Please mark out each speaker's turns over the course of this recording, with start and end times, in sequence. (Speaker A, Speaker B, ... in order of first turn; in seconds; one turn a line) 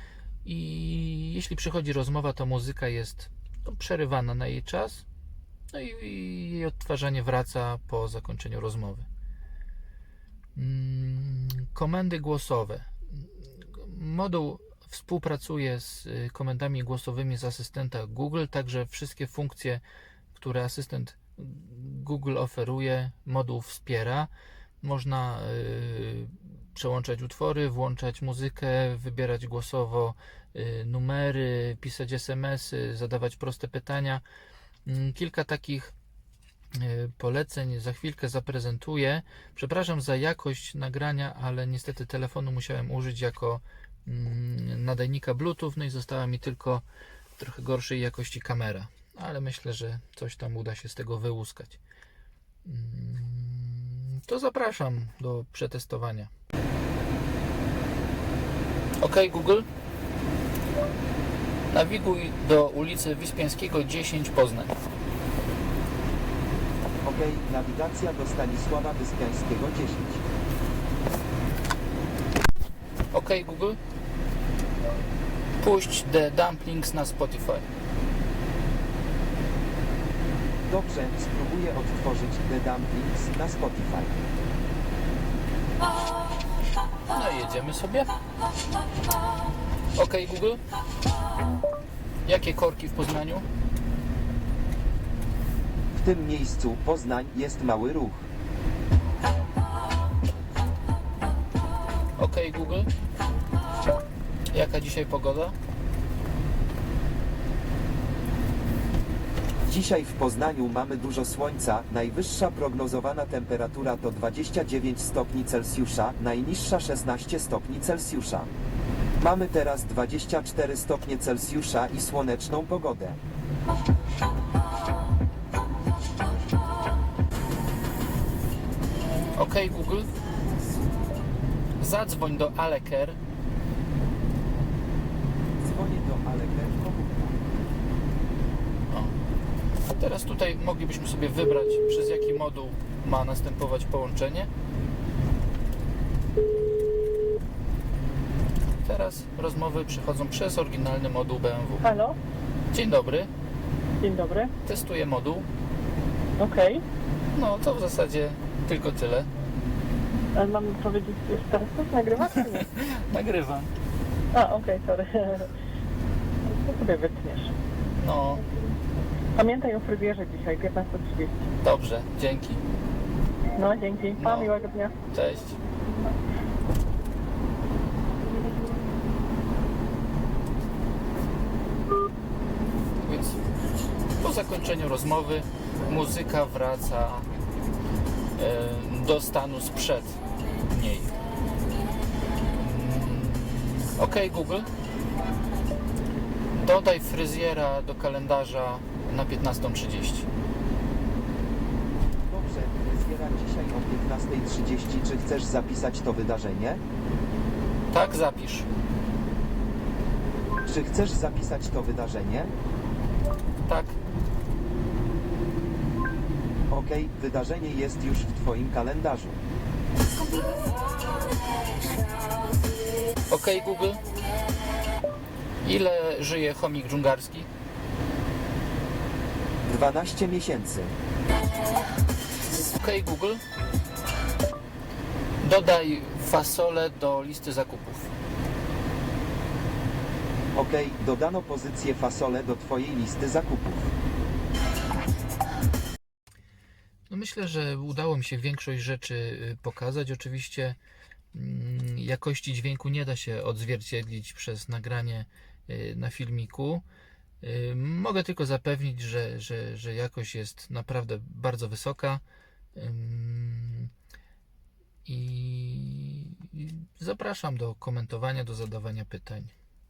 Speaker A: 0.4-5.0
Speaker A: 5.7-9.1
Speaker A: 10.6-19.8
Speaker A: 20.3-24.3
Speaker A: 24.8-34.2
Speaker A: 34.9-35.9
Speaker A: 36.7-46.8
Speaker A: 47.4-51.8
Speaker A: 52.6-56.3
Speaker A: 59.0-59.6
Speaker A: 61.7-64.7
Speaker B: 67.0-70.2
Speaker A: 73.1-73.8
Speaker A: 75.6-77.7
Speaker B: 80.7-84.2
Speaker A: 87.0-88.1
Speaker A: 89.9-90.6
Speaker A: 92.2-93.4
Speaker B: 96.0-98.3
Speaker A: 102.2-102.9
Speaker A: 104.5-105.5
Speaker B: 109.7-118.5
Speaker B: 119.2-123.2
Speaker A: 129.3-130.1
Speaker A: 131.8-133.2
Speaker B: 135.6-137.4
Speaker A: 139.9-144.5
Speaker A: 148.8-151.9
Speaker C: 151.8-152.2
Speaker A: 152.7-153.3
Speaker C: 154.0-154.5
Speaker A: 154.6-155.4
Speaker C: 156.4-156.8
Speaker A: 157.3-159.3
Speaker C: 160.3-162.7
Speaker A: 162.2-163.7
Speaker C: 164.3-165.5
Speaker C: 166.6-167.5
Speaker A: 168.0-168.4
Speaker C: 169.3-171.5
Speaker A: 171.6-172.6
Speaker C: 173.6-174.9
Speaker A: 174.2-174.5
Speaker A: 175.1-175.6
Speaker A: 183.0-183.4
Speaker A: 184.2-187.2
Speaker A: 188.3-191.1
Speaker A: 192.6-194.7
Speaker A: 196.5-200.3
Speaker B: 202.3-206.8
Speaker A: 207.9-208.7
Speaker B: 210.6-212.5
Speaker A: 213.6-213.9
Speaker B: 216.7-219.4
Speaker A: 223.3-224.1
Speaker A: 225.6-227.5
Speaker B: 229.6-230.9
Speaker A: 232.6-233.4
Speaker A: 235.4-238.1
Speaker B: 240.5-243.9
Speaker A: 247.1-250.8
Speaker A: 251.3-256.8
Speaker A: 257.4-262.2
Speaker A: 262.7-263.9
Speaker A: 265.1-269.5